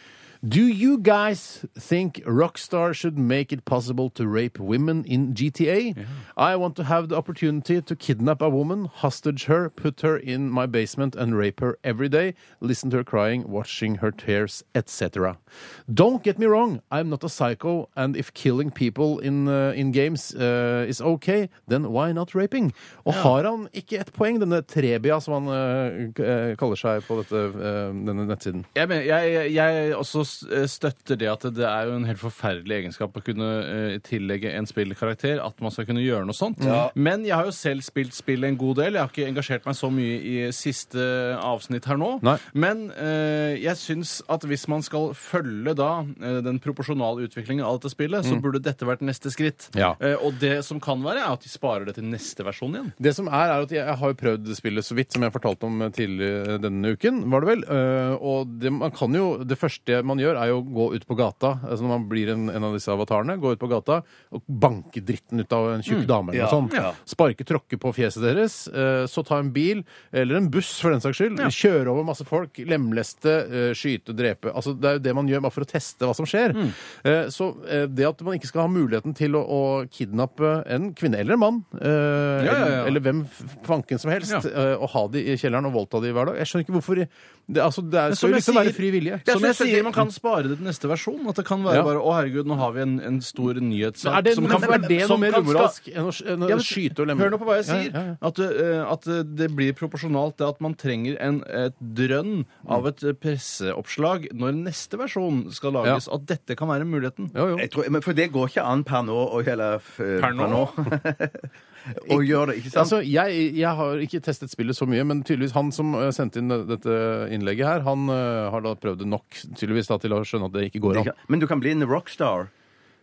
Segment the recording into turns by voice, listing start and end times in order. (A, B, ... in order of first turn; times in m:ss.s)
0:00.4-0:28.7 A
0:23.1-0:23.3 B
0:28.8-0:53.0 B
0:36.6-0:36.9 A
0:36.6-0:36.9 C
0:53.0-1:29.2 A
1:06.3-1:07.0 C
1:06.7-1:06.9 B
1:22.4-1:23.0 B
1:28.1-1:35.8 B
1:29.2-1:30.0 C
1:34.0-1:38.1 A
1:34.4-1:34.9 C
1:36.4-1:47.3 B
1:47.3-1:47.7 A
1:47.6-1:53.0 C
1:50.2-1:50.8 B
1:52.7-2:01.1 A
2:00.9-2:02.5 C